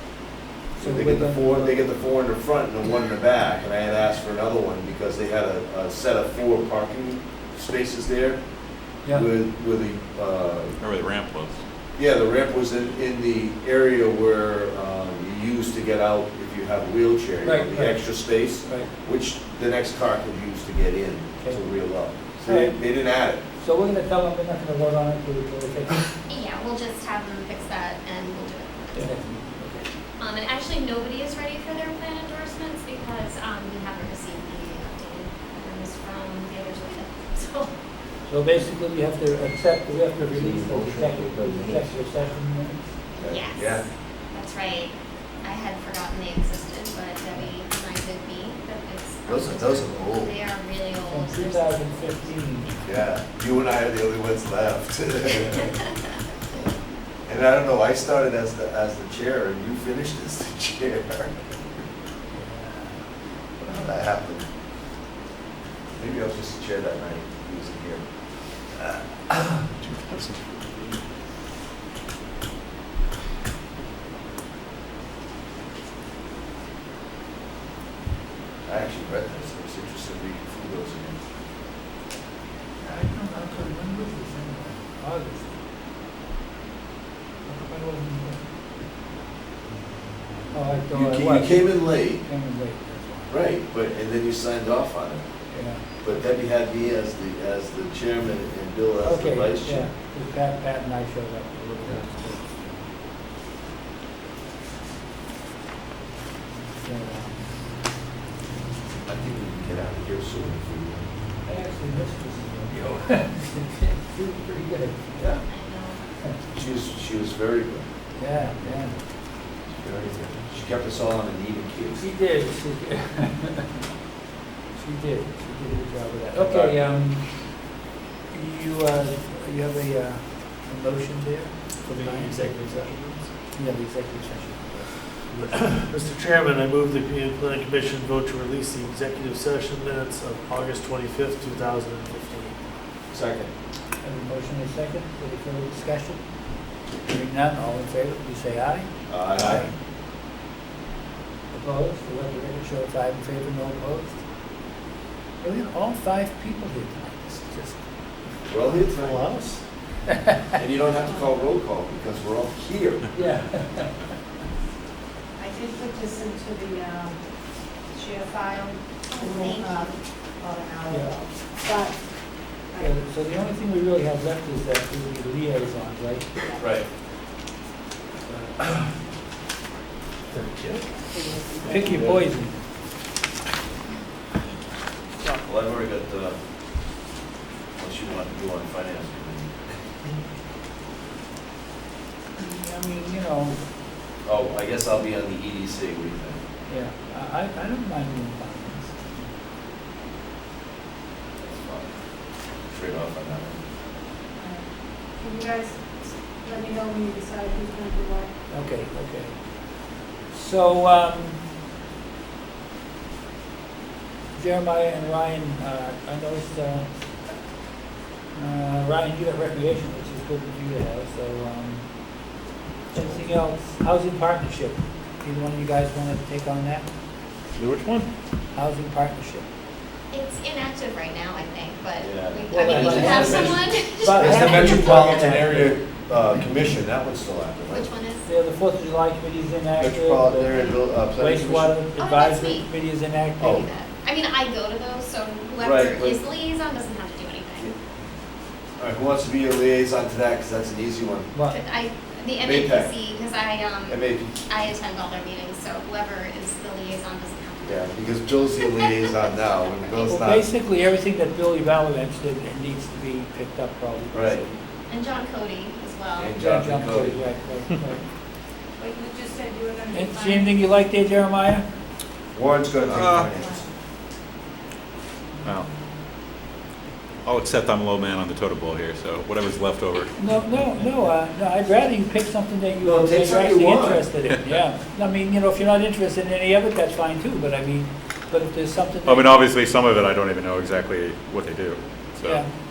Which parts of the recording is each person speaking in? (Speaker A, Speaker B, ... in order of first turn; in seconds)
Speaker A: 0.7-1.8, 17.4-18.9, 22.4-22.8, 23.6-26.2, 28.9-29.9, 38.2-43.0, 51.1-52.9, 62.3-63.0, 82.8-85.6, 87.5-88.4, 90.5-93.3, 95.5-96.2, 99.0-102.9, 106.8-107.5, 111.4-115.2, 118.2-119.0, 122.0-123.7, 124.7-127.7, 128.3-132.9, 133.5-135.5, 144.0-149.7, 151.5-154.2, 155.4-157.8, 163.1-164.0, 170.9-171.1, 172.8-176.4, 178.3-178.5, 181.6-182.6, 192.4-193.6, 196.7-199.3, 208.5-211.4, 214.3-217.3, 218.3-226.9, 228.5-229.5, 232.5-235.8, 238.2-240.6, 241.1-243.6, 251.3-251.6, 260.1-264.5, 266.4-268.0, 269.9-271.6, 280.1-289.4
Speaker B: 0.8-8.4, 9.1-10.8, 11.9-23.4, 40.3-41.8, 43.2-43.9, 49.2-50.3, 52.8-55.8, 57.2-61.5, 63.6-64.5, 66.0-68.1, 68.6-69.7, 78.6-81.2, 90.9-92.2, 93.3-95.2, 95.8-99.9, 109.0-111.1, 115.2-115.4, 116.5-117.8, 119.7-122.0, 126.3-126.8, 143.1-143.5, 149.1-149.7, 158.5-159.3, 160.5-163.1, 176.6-176.9, 178.6-178.8, 185.4-186.4, 187.8-189.5, 194.2-196.4, 201.4-202.0, 202.7-203.6, 223.0-223.2, 232.0-237.9, 239.8-241.7, 243.4-243.7, 245.6-246.2, 248.8-251.3, 252.4-252.9, 253.9-254.4, 257.6-260.5, 264.1-264.5, 266.2-267.2, 272.3-273.6, 282.8-284.1
Speaker C: 10.8-11.6, 69.9-70.3, 149.3-149.6, 227.6-227.9, 272.9-273.3, 275.4-275.7, 277.2-280.9, 284.3-284.6, 289.0-292.4
Speaker D: 26.3-29.1, 30.2-37.7, 43.1-52.3, 115.5-116.0, 169.1-169.9, 230.1-235.1, 237.7-238.3, 240.5-240.8, 241.9-242.7, 243.4-247.7, 251.4-258.1, 259.6-260.3, 264.9-266.4
Speaker E: 131.8-133.3, 135.2-142.6, 159.0-159.6, 227.6-228.0
Speaker F: 165.4-167.2, 167.9-172.0, 181.1-181.9, 204.3-208.3, 268.8-270.7, 273.4-273.6